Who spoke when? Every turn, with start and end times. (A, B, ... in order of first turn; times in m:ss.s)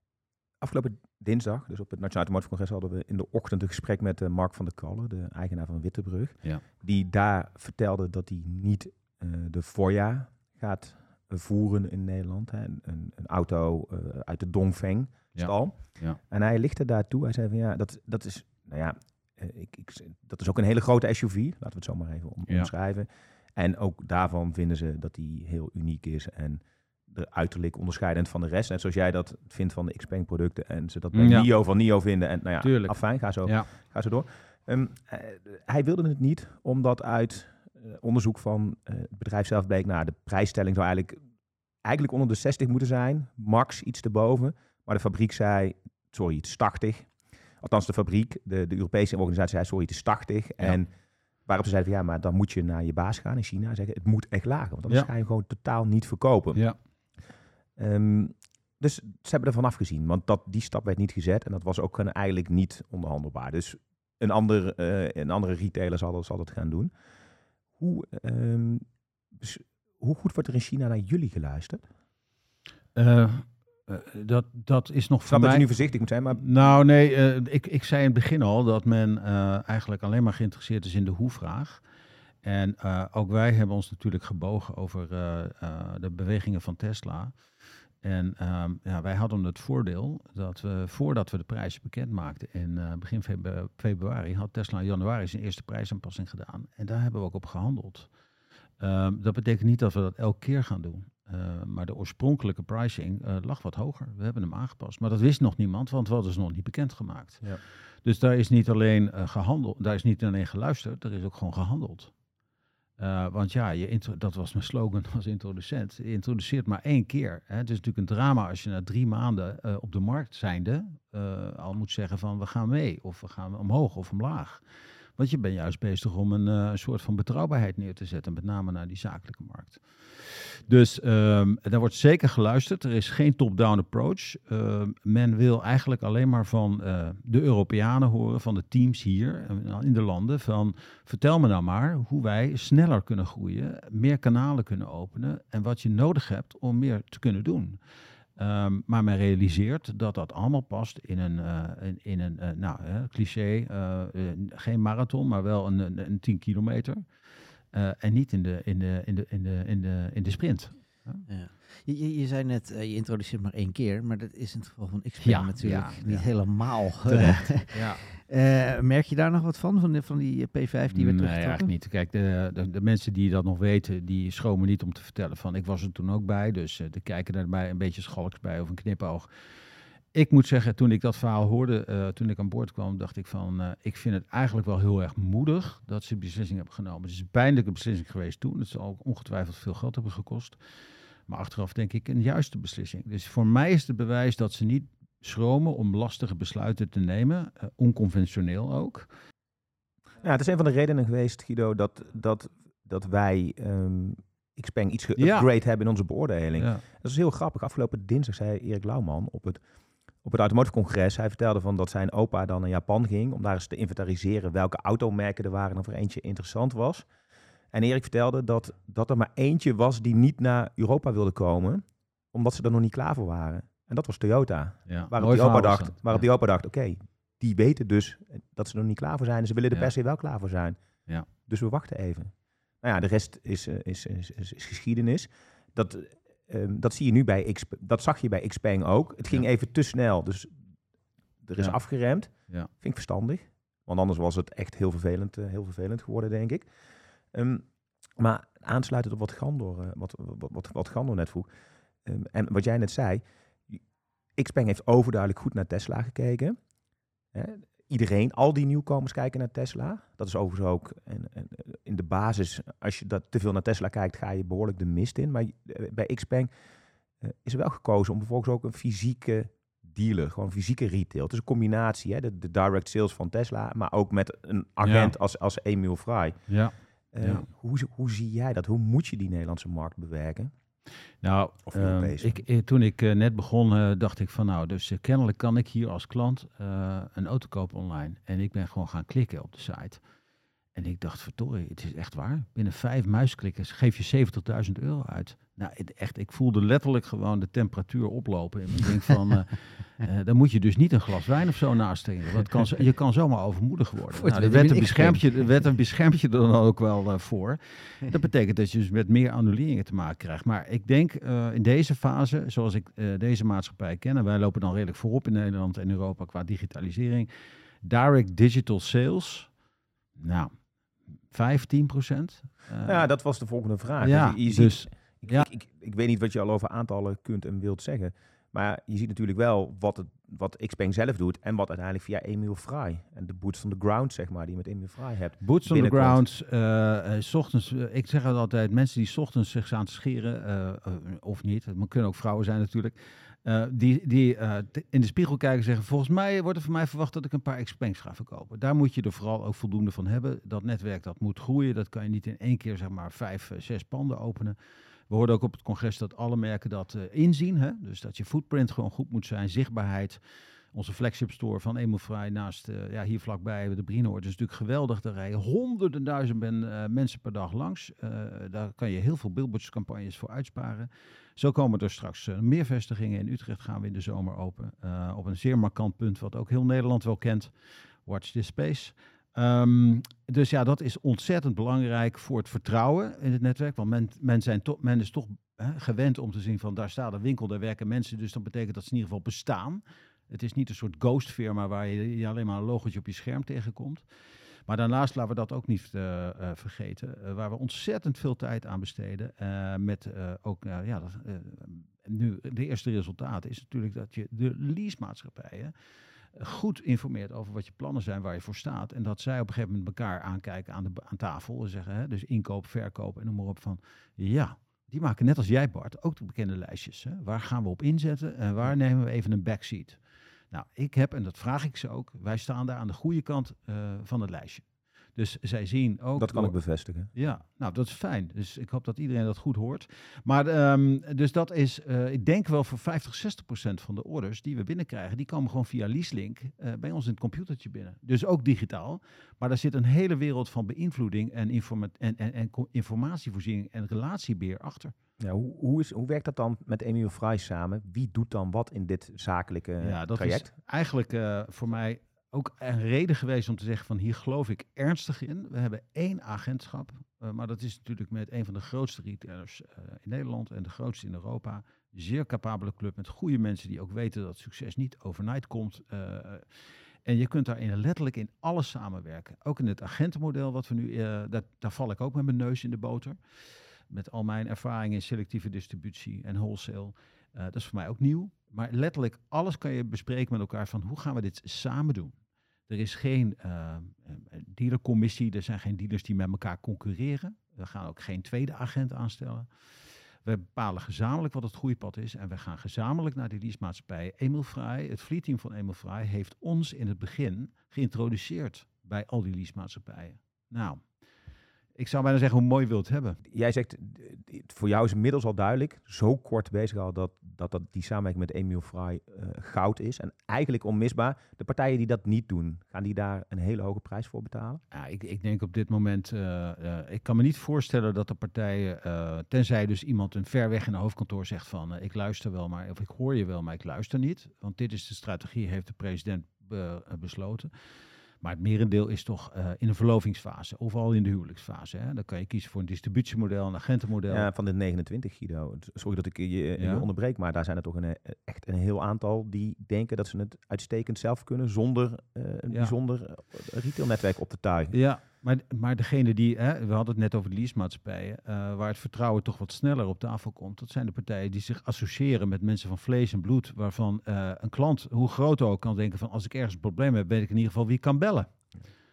0:00.6-0:41.2 A
0:15.4-0:16.2 B
0:31.1-0:31.5 B
0:32.6-0:33.7 B
0:41.8-0:50.9 A
0:51.4-0:56.6 A
0:57.8-1:06.9 A
1:07.8-1:11.8 A
1:13.0-1:15.7 B
1:15.3-1:16.5 A
1:16.4-1:21.8 B
1:22.4-1:27.3 B
1:28.0-1:38.1 B
1:38.8-1:52.1 B
1:53.0-2:04.6 B
2:05.2-2:27.8 B
2:28.4-2:37.0 B
2:37.7-2:41.2 B
2:41.3-2:51.7 C
2:45.2-2:46.3 B
2:47.2-2:48.1 B
2:50.9-2:59.3 B
3:00.1-3:10.6 B
3:11.3-3:19.1 B
3:20.2-3:29.6 A
3:25.2-3:25.5 B
3:30.2-3:37.1 A
3:37.7-3:50.8 A
3:44.9-3:46.2 B
3:51.3-4:00.5 A
4:01.4-4:06.7 A
4:01.6-4:02.7 B
4:07.3-4:11.5 A
4:12.0-4:13.8 A
4:14.4-4:16.6 A
4:17.3-4:26.5 A
4:27.2-4:36.6 A
4:34.8-4:35.1 B
4:36.5-4:37.5 B
4:37.1-4:40.5 A
4:41.2-4:50.0 B
4:41.7-4:42.4 A
4:50.8-5:17.3 B
5:04.1-5:05.5 C
5:17.8-5:19.5 B
5:20.2-5:20.5 B
5:21.3-5:23.0 B
5:22.8-5:36.2 A
5:24.0-5:25.4 B
5:35.4-5:54.6 B
5:55.1-6:00.2 B
6:00.7-6:17.5 B
6:18.0-6:34.0 B
6:34.7-6:45.7 B
6:46.4-7:00.0 B
7:00.5-7:25.0 B
7:06.2-7:07.1 A
7:25.2-7:30.5 A
7:29.8-7:53.2 B
7:53.9-8:02.2 B
8:02.7-8:09.5 B
8:10.2-8:20.8 B
8:21.8-8:23.2 B
8:23.3-8:34.6 A
8:34.7-8:47.5 B
8:48.2-8:54.3 B
8:54.1-9:04.8 A
8:56.6-8:56.9 B
9:04.7-9:18.3 B